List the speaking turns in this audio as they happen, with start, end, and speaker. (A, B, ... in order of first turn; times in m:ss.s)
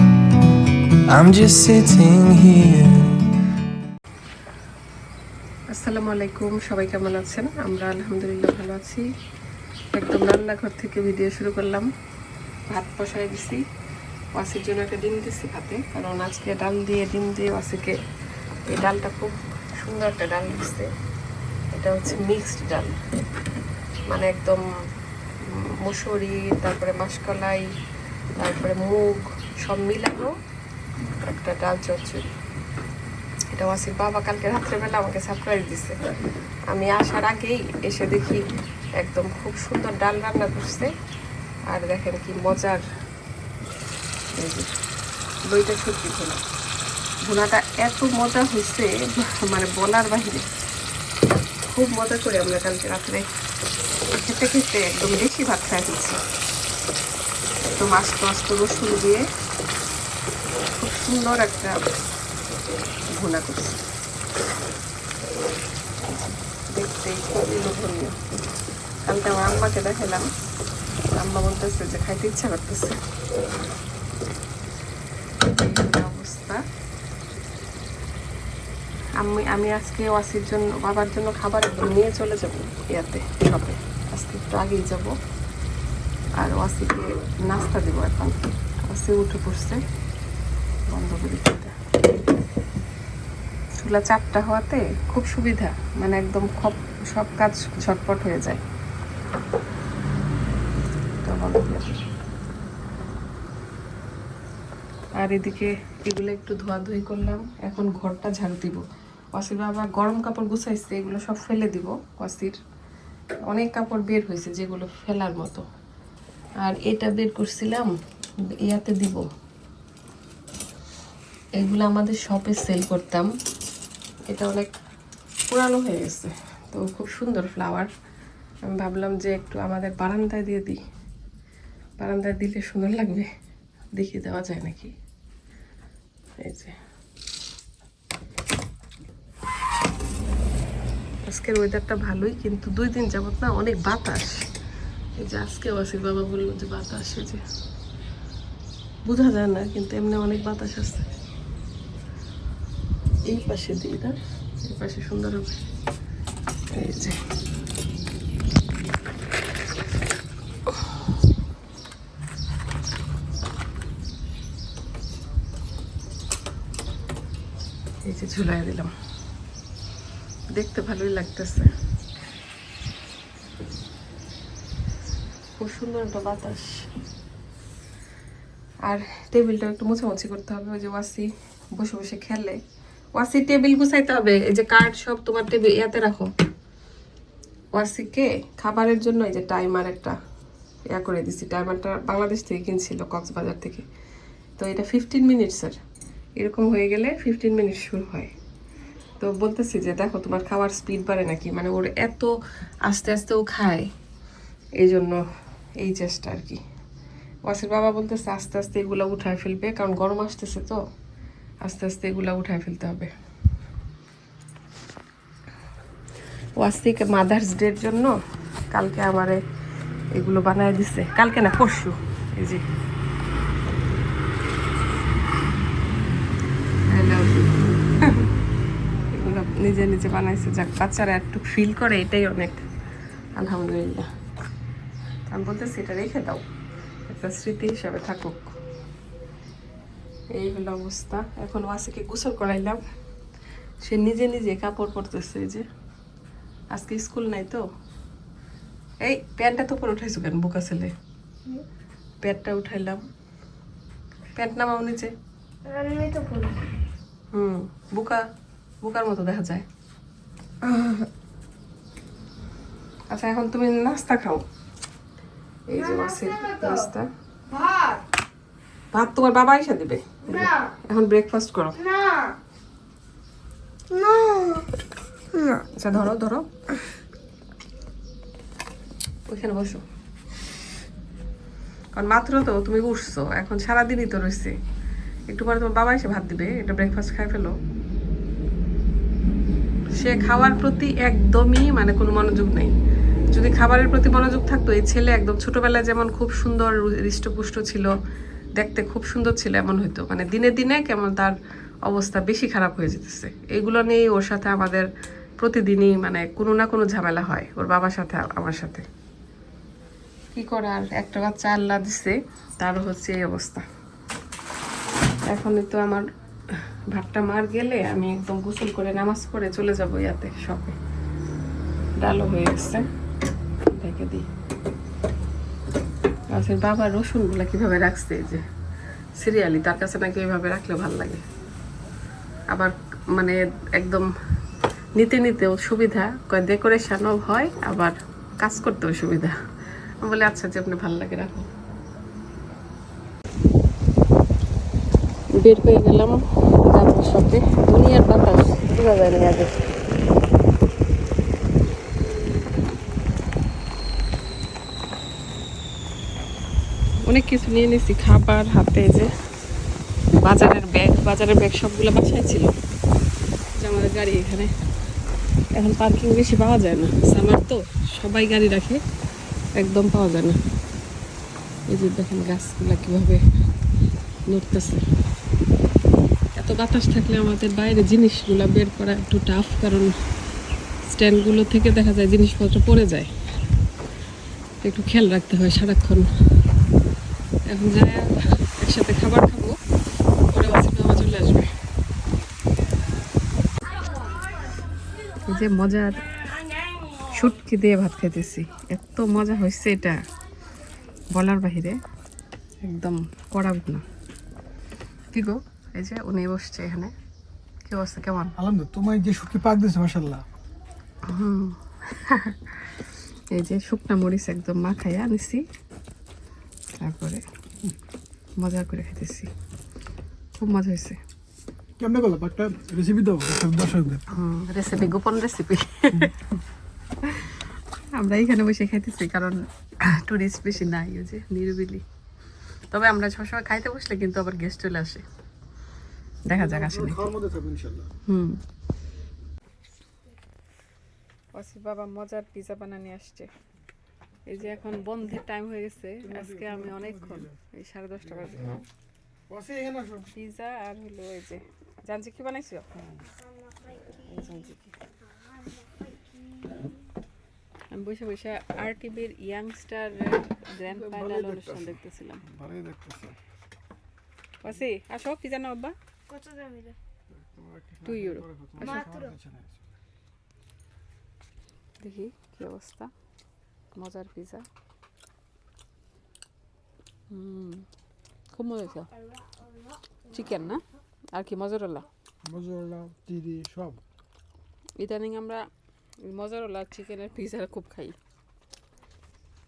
0:01.1-0:03.1 A
0:05.7-0:09.0 B
0:09.9-0:11.9 B
0:12.7-0:13.6 B
0:14.4-0:18.0 B
0:18.7-0:20.9 B
0:21.7-0:23.0 B
0:24.1-0:24.6 B
0:25.4-0:27.7 B
0:28.4-0:30.3 B
0:31.2-0:32.3 B
0:33.5-0:36.0 B
0:36.7-0:38.4 B
0:39.0-0:40.9 B
0:41.7-0:42.8 B
0:44.4-0:44.7 B
0:45.5-0:46.4 B
0:47.2-0:50.4 B
0:51.6-0:53.3 B
0:54.1-0:56.2 B
0:57.6-0:59.2 B
1:00.7-1:01.8 B
1:03.1-1:03.8 B
1:06.0-1:08.2 B
1:09.1-1:10.3 B
1:11.1-1:13.0 B
1:15.4-1:16.6 B
1:19.2-1:25.1 B
1:26.4-1:29.8 B
1:30.9-1:31.8 B
1:33.8-1:38.6 B
1:41.2-1:42.0 B
1:45.2-1:48.8 B
1:49.4-1:52.6 B
1:53.5-1:55.6 B
1:56.6-1:57.9 B
1:58.6-1:59.2 B
2:01.6-2:03.3 B
2:04.3-2:04.7 B
2:05.5-2:07.9 B
2:08.7-2:10.8 B
2:12.0-2:13.3 B
2:14.0-2:14.9 B
2:16.4-2:16.8 B
2:21.3-2:24.4 B
2:25.2-2:27.4 B
2:29.0-2:31.0 B
2:33.3-2:35.5 B
2:36.7-2:37.2 B
2:48.0-2:48.9 B
2:50.5-2:51.7 B
2:55.6-2:56.9 B
2:58.8-3:02.6 B
3:03.2-3:06.3 B
3:07.7-3:10.2 B
3:10.9-3:13.8 B
3:14.6-3:15.8 B
3:16.4-3:18.3 B
3:19.2-3:22.3 B
3:22.8-3:23.9 B
3:24.8-3:25.2 B
3:25.8-3:26.6 B
3:27.5-3:30.8 B
3:31.6-3:33.1 B
3:36.6-3:38.1 B
3:38.7-3:39.4 B
3:40.2-3:42.6 B
3:46.9-3:48.3 B
3:49.1-3:52.6 B
3:53.4-3:54.1 B
3:55.3-3:56.4 B
3:57.1-3:58.6 B
4:00.4-4:02.8 B
4:03.8-4:05.6 B
4:06.7-4:07.6 B
4:09.0-4:10.9 B
4:12.2-4:13.0 B
4:14.4-4:15.1 B
4:15.7-4:16.6 C
4:17.3-4:18.2 B
4:18.8-4:19.6 B
4:20.6-4:21.1 C
4:23.1-4:24.4 B
4:25.7-4:27.1 B
4:25.9-4:26.8 C
4:27.5-4:28.0 C
4:28.9-4:31.8 B
4:30.3-4:30.7 C
4:31.8-4:32.4 C
4:33.9-4:34.6 C
4:35.4-4:36.5 B
4:39.3-4:39.8 B
4:41.9-4:44.5 B
4:45.3-4:47.6 B
4:49.9-4:52.7 B
4:53.3-4:57.9 B
4:58.6-5:01.4 B
5:01.9-5:04.9 B
5:05.4-5:08.8 B
5:10.3-5:13.6 B
5:15.3-5:16.0 B
5:16.9-5:20.8 B
5:22.0-5:22.8 B
5:23.7-5:24.3 B
5:26.3-5:28.4 B
5:29.2-5:31.2 B
5:32.5-5:34.1 B
5:35.0-5:39.4 B
5:40.0-5:41.5 B
5:45.4-5:49.6 B
5:57.0-5:59.1 B
6:00.1-6:02.5 B
6:03.6-6:04.5 B
6:05.5-6:08.8 B
6:09.6-6:10.4 B
6:11.7-6:13.2 B
6:14.3-6:14.8 B
6:16.4-6:19.9 B
6:20.8-6:23.1 B
6:24.6-6:26.1 B
6:27.5-6:29.6 B
6:30.3-6:31.5 B
6:35.3-6:36.0 B
6:37.1-6:40.0 B
6:41.1-6:41.8 B
6:42.6-6:43.8 B
6:45.1-6:46.9 B
6:47.7-6:48.4 B
6:48.4-6:50.2 D
6:51.1-6:52.4 B
6:53.3-6:55.4 B
6:56.8-6:57.2 B
6:58.4-6:59.3 B
7:00.4-7:01.0 B
7:01.8-7:04.0 D
7:04.1-7:06.2 B
7:08.0-7:11.8 B
7:12.7-7:15.0 B
7:16.3-7:17.1 B
7:16.4-7:17.9 D
7:18.1-7:18.4 B
7:21.3-7:23.3 B
7:24.3-7:28.6 B
7:26.1-7:27.4 D
7:29.3-7:30.1 D
7:30.1-7:32.7 B
7:34.1-7:34.8 B
7:37.7-7:42.2 B
7:40.7-7:41.8 D
7:42.3-7:43.2 D
7:44.4-7:45.8 B
7:46.1-7:46.8 C
7:47.1-7:49.6 D
7:47.8-7:48.7 B
7:48.6-7:49.1 C
7:51.8-7:52.9 B
7:53.8-7:54.4 B
7:57.1-7:57.6 B
7:58.3-7:58.9 B
8:00.1-8:01.9 B
8:02.2-8:03.8 D
8:04.8-8:05.5 B
8:06.0-8:08.0 B